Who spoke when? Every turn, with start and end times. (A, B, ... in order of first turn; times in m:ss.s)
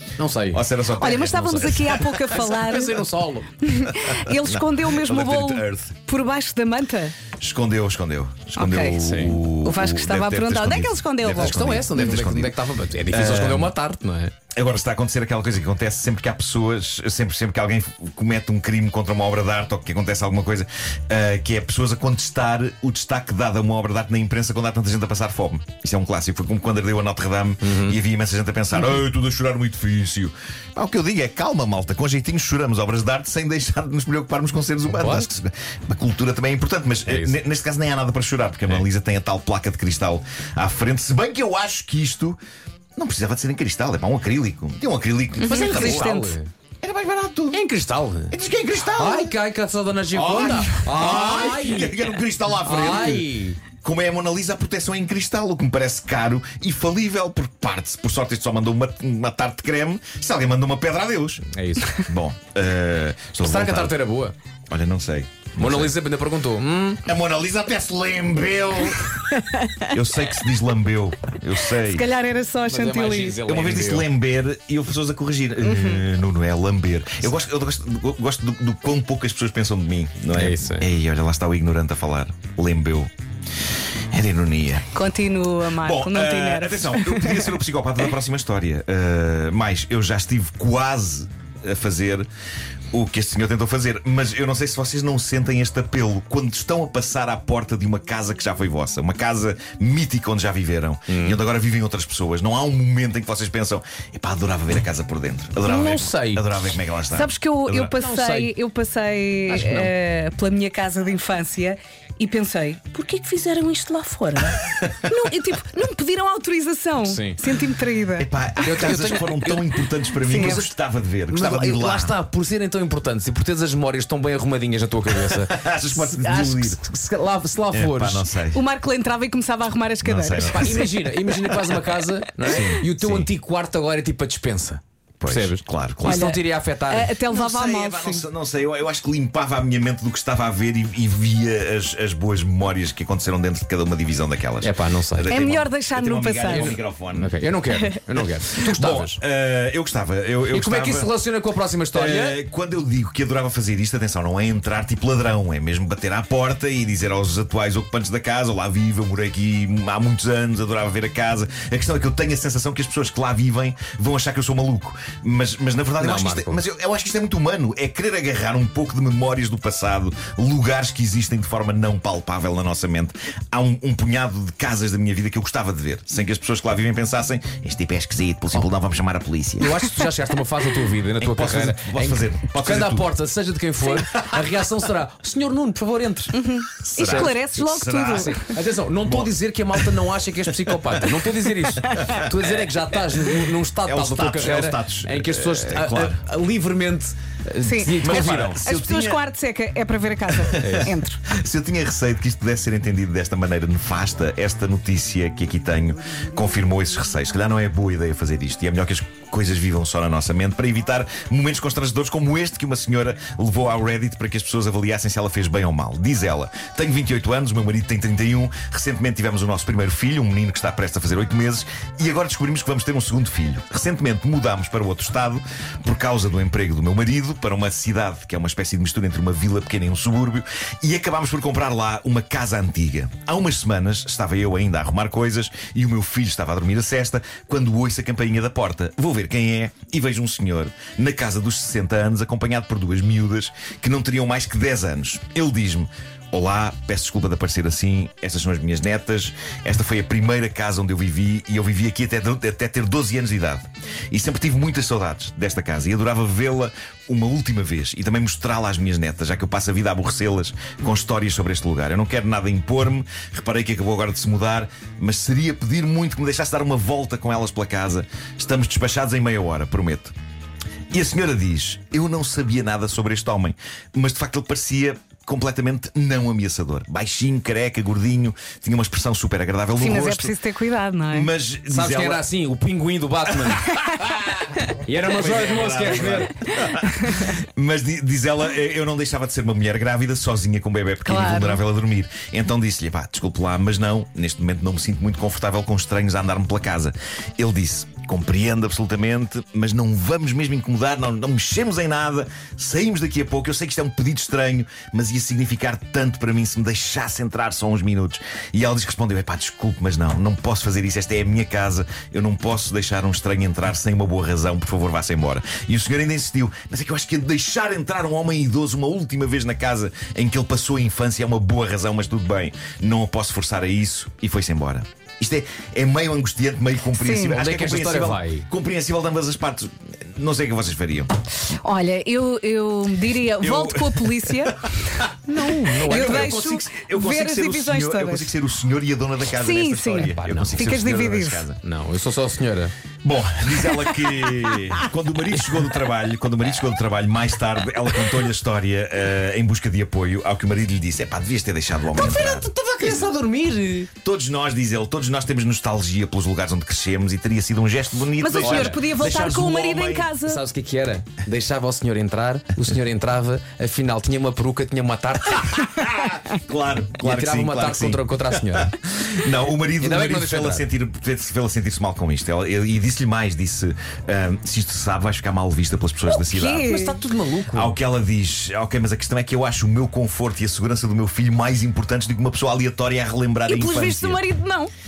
0:00.2-0:00.6 A
0:00.5-0:02.2 B
0:00.9-0:03.0 C
0:02.3-0:03.5 A
0:03.6-0:07.2 C
0:03.9-0:06.0 B
0:07.4-0:12.6 B
0:08.6-0:11.6 C
0:09.0-0:09.4 A
0:11.3-0:14.3 A
0:13.1-0:13.7 B
0:14.5-0:42.4 B
0:27.6-0:28.0 A
0:34.9-0:35.3 A
0:37.0-0:37.4 A
0:43.0-0:46.1 B
0:45.4-0:46.4 C
0:45.4-0:46.5 A
0:46.8-0:47.6 B
0:47.5-0:48.3 A
0:48.3-0:49.3 B
0:49.0-0:53.6 A
0:50.1-0:53.3 B
0:53.8-1:03.9 B
1:01.5-1:02.0 A
1:03.4-1:04.3 A
1:04.7-1:05.9 B
1:05.6-1:07.0 A
1:07.0-1:09.1 B
1:09.4-1:09.9 C
1:09.9-1:12.0 B
1:11.8-1:13.4 C
1:12.7-1:14.1 A
1:13.4-1:23.1 B
1:15.6-1:16.0 C
1:20.3-1:20.9 A
1:24.1-1:24.9 B
1:24.9-1:27.6 C
1:25.8-1:32.3 B
1:32.9-1:47.9 B
1:41.1-1:41.4 A
1:45.6-1:46.8 A
1:47.1-1:58.3 C
1:47.9-1:48.5 A
1:49.5-1:49.9 A
1:54.7-1:55.1 B
1:57.0-1:57.4 A
1:58.2-2:02.1 B
1:58.6-2:00.5 A
2:00.2-2:00.7 C
2:01.3-2:08.3 A
2:05.2-2:06.8 B
2:07.7-2:08.6 B
2:08.5-2:10.9 C
2:10.0-2:11.8 B
2:10.4-2:17.2 A
2:12.4-2:13.3 B
2:15.2-2:16.3 B
2:16.0-2:18.2 C
2:17.2-2:27.3 B
2:24.6-2:25.3 A
2:25.3-2:26.8 C
2:26.5-2:29.2 A
2:28.6-2:31.1 B
2:30.5-2:32.4 A
2:31.9-2:59.8 B
2:46.0-2:46.6 A
2:59.6-3:07.3 A
3:01.2-3:03.1 B
3:06.3-3:08.4 C
3:07.0-3:08.5 B
3:08.1-3:18.6 A
3:10.7-3:11.1 B
3:12.0-3:12.5 B
3:13.8-3:16.2 B
3:17.6-3:21.2 C
3:18.0-3:19.2 B
3:20.3-4:30.1 B
3:20.6-3:20.9 A
4:30.9-4:40.4 B
4:39.8-4:41.3 C
4:41.1-4:42.3 B
4:41.7-4:46.4 A
4:43.4-4:44.4 B
4:45.0-5:31.1 B
4:51.0-4:51.6 C
5:27.0-5:27.3 C
5:27.2-5:28.4 A
5:31.5-5:38.3 C
5:33.4-5:41.6 B
5:35.5-5:36.4 A
5:39.3-5:41.4 C
5:40.0-5:40.7 A
5:41.6-5:42.7 A
5:43.0-5:52.5 B
5:51.9-5:53.9 A
5:54.0-6:00.1 B
5:58.2-6:00.4 C
5:58.4-5:59.0 A
6:00.2-6:05.7 A
6:05.4-6:16.7 B
6:07.0-6:08.8 A
6:09.8-6:10.6 A
6:16.1-6:17.0 C
6:16.6-6:17.8 A
6:17.5-6:24.2 B
6:23.5-6:24.7 C